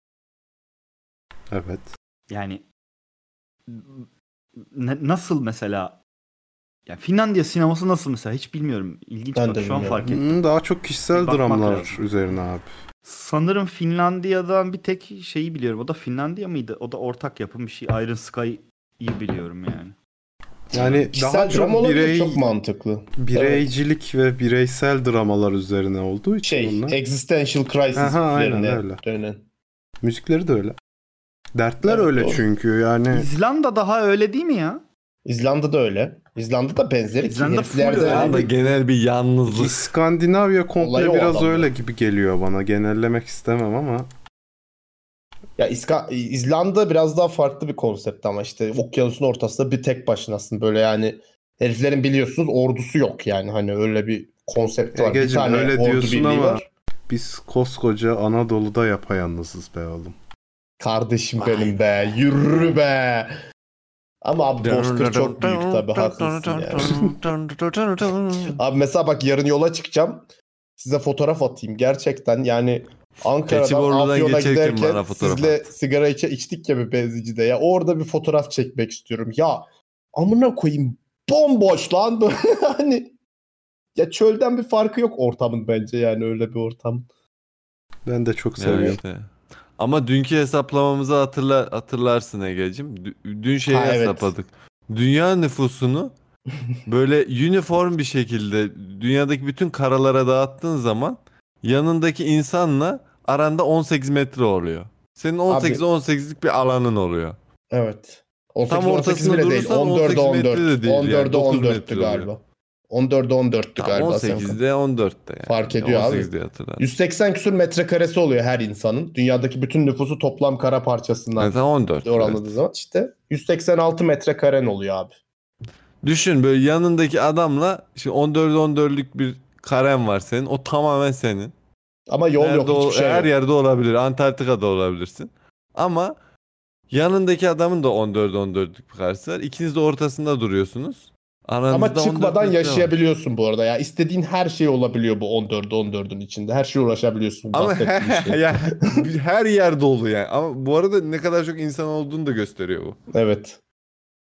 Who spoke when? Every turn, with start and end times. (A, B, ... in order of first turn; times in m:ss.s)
0:01.5-0:01.9 A
0:02.3-0:02.6 B
0:03.7-0:04.1 B
0:04.6-0:06.0 B
0:06.9-0:10.2 B
0:09.4-0:10.1 C
0:10.0-0:12.7 A
0:11.1-0:12.0 B
0:13.0-0:20.0 B
0:20.7-0:22.5 A
0:20.7-0:23.6 C
0:23.2-0:27.0 A
0:26.4-0:29.4 C
0:28.0-0:29.0 A
0:30.0-0:30.8 A
0:31.6-0:33.3 A
0:31.9-0:32.4 C
0:33.1-0:34.8 B
0:35.2-0:38.4 C
0:37.3-0:38.5 B
0:38.0-0:39.8 D
0:39.5-0:44.1 A
0:40.8-0:41.7 C
0:45.6-0:56.6 C
0:54.9-1:00.2 A
1:00.8-1:03.4 C
1:01.4-1:01.7 D
1:04.2-1:07.1 C
1:04.6-1:08.6 D
1:08.6-1:10.3 C
1:10.8-1:23.2 C
1:13.5-1:15.7 D
1:24.0-1:27.1 C
1:28.1-1:29.0 A
1:28.6-1:36.1 D
1:33.7-1:34.3 C
1:36.9-1:47.4 D
1:45.5-1:45.8 C
1:47.7-1:54.6 C
1:48.7-1:52.3 D
1:53.8-1:56.8 D
1:55.5-2:05.2 C
2:01.4-2:02.4 D
2:06.0-2:11.5 D
2:12.1-2:13.3 C
2:12.4-2:16.2 D
2:16.9-2:22.9 D
2:21.7-2:28.8 C
2:27.5-2:33.0 D
2:33.1-2:33.6 C